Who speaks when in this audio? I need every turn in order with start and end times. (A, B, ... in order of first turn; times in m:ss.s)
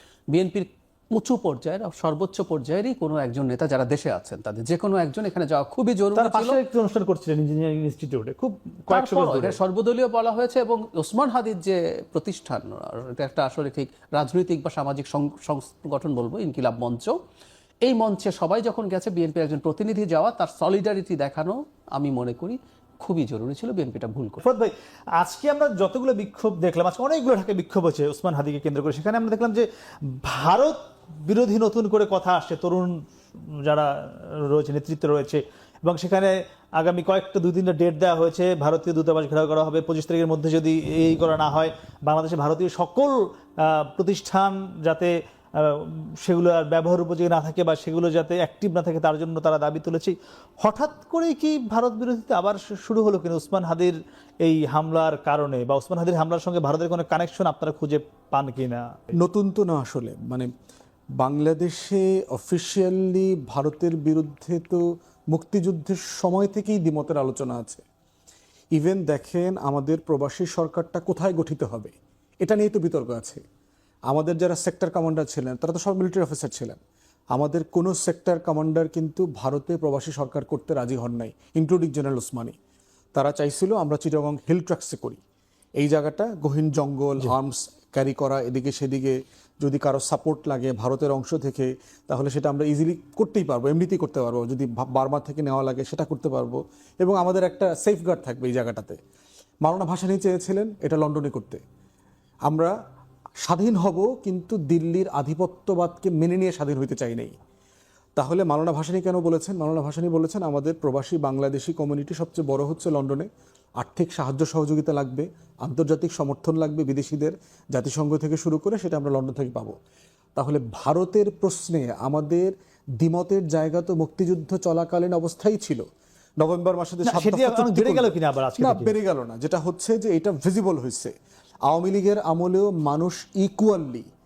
0:00.3-0:06.6 A
0:06.2-0:09.6 B
0:08.9-0:17.2 A
0:17.9-0:24.4 A
0:24.4-0:58.8 B
0:59.2-1:00.5 C
1:01.2-1:07.8 C
1:08.8-1:13.4 C
1:14.1-1:16.8 C
1:17.3-1:22.6 C
1:23.1-1:25.2 C
1:25.8-1:39.0 C
1:39.6-1:41.6 C
1:42.5-1:42.7 C
1:43.4-1:47.4 C
1:48.2-1:53.3 C
1:53.8-1:59.8 C
2:00.4-2:05.8 C
2:06.4-2:11.1 C
2:07.1-2:08.9 B
2:11.7-2:14.1 C